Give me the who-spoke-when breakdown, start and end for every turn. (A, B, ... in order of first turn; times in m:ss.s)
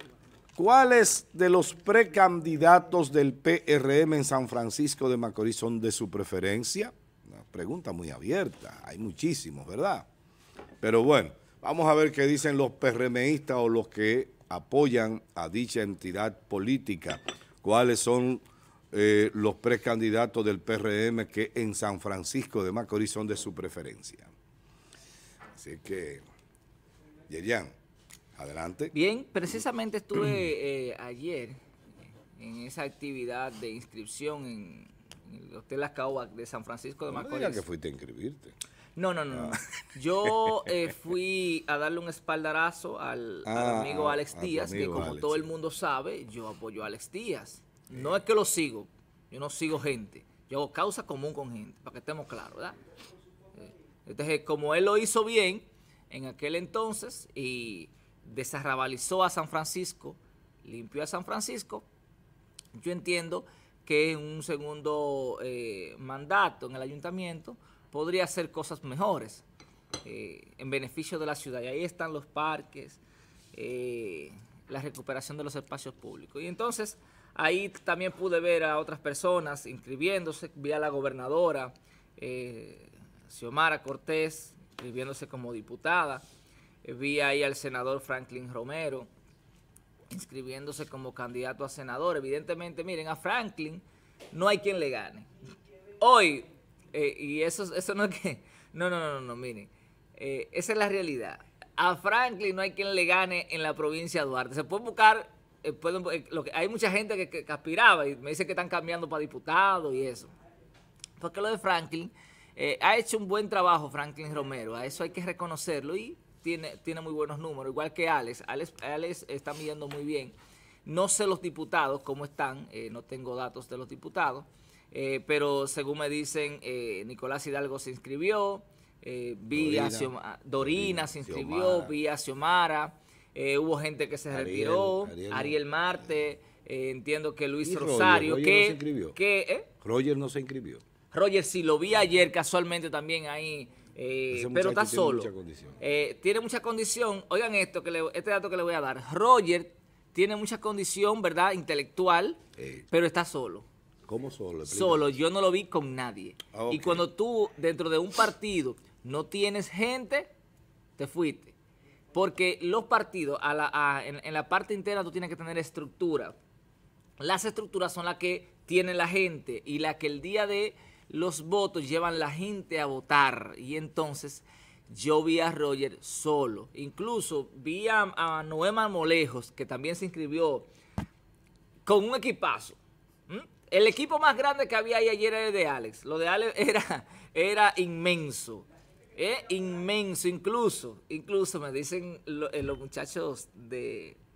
0:00.6-0:10.1 A
0:10.8-0:24.3 A
0:25.6-0:26.3 A
0:27.3-0:27.7 A
0:28.4-0:28.9 A
0:28.9-0:31.6 B
0:32.4-0:37.6 B
0:37.1-0:38.6 A
0:39.0-0:52.8 B
0:39.3-0:39.6 A
0:43.4-0:45.5 A
0:53.6-1:01.9 B
1:02.7-1:09.4 B
1:10.0-1:13.0 B
1:13.5-1:26.2 B
1:26.8-1:29.1 B
1:30.1-1:35.3 B
1:36.0-1:50.3 B
1:51.2-2:19.7 B
2:09.5-2:12.0 A
2:14.3-2:15.6 A
2:17.6-2:19.2 A
2:19.8-2:20.8 A
2:21.1-2:33.7 B
2:24.3-2:25.8 A
2:32.6-2:32.9 A
2:34.1-2:35.2 A
2:34.7-2:40.3 B
2:36.5-2:37.1 A
2:41.0-2:41.5 B
2:42.1-2:46.4 B
2:47.2-3:00.7 B
3:01.9-3:14.2 B